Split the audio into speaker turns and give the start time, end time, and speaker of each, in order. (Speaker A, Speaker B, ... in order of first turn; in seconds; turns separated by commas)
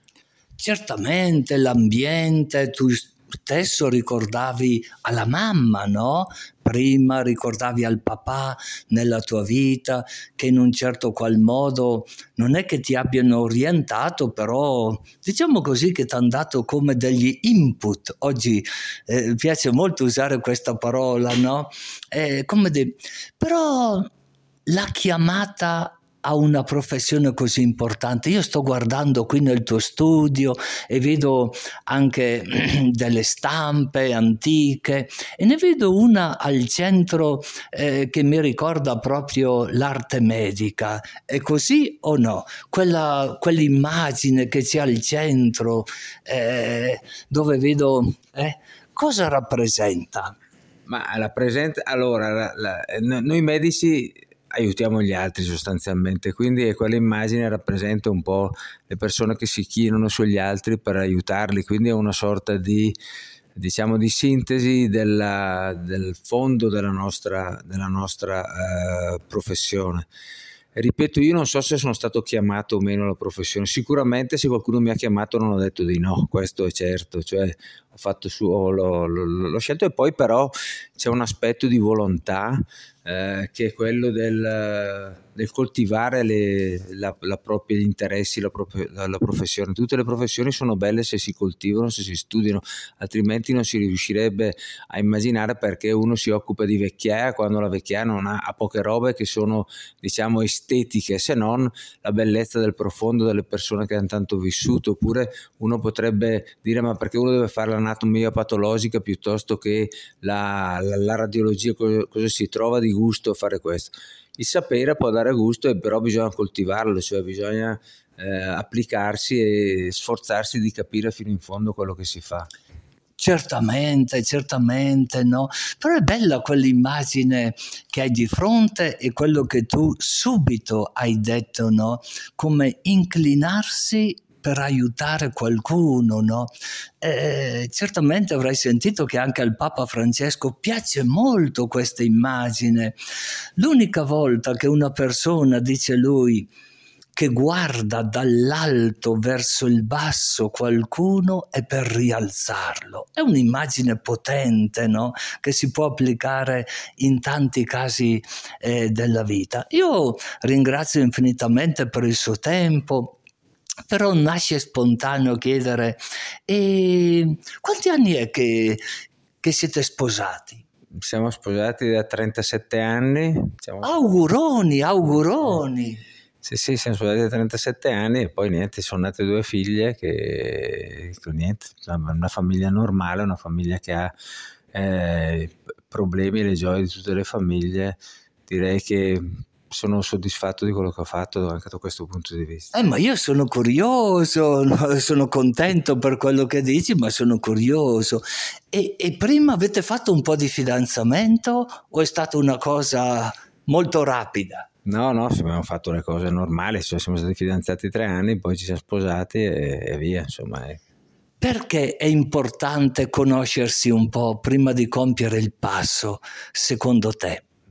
Speaker A: 0.6-24.1, Speaker A: 24.7-50.4, Speaker B: 50.9-62.9, Speaker B: 63.6-70.1, Speaker B: 70.8-122.5, Speaker A: 123.2-142.9, Speaker A: 143.6-146.5, Speaker A: 147.2-163.2, Speaker A: 163.9-168.8, Speaker A: 169.4-170.6, Speaker B: 170.9-173.9, Speaker A: 173.8-176.0, Speaker B: 176.4-184.1, Speaker B: 184.7-192.7, Speaker A: 192.7-204.7, Speaker B: 204.8-210.8, Speaker A: 211.4-217.4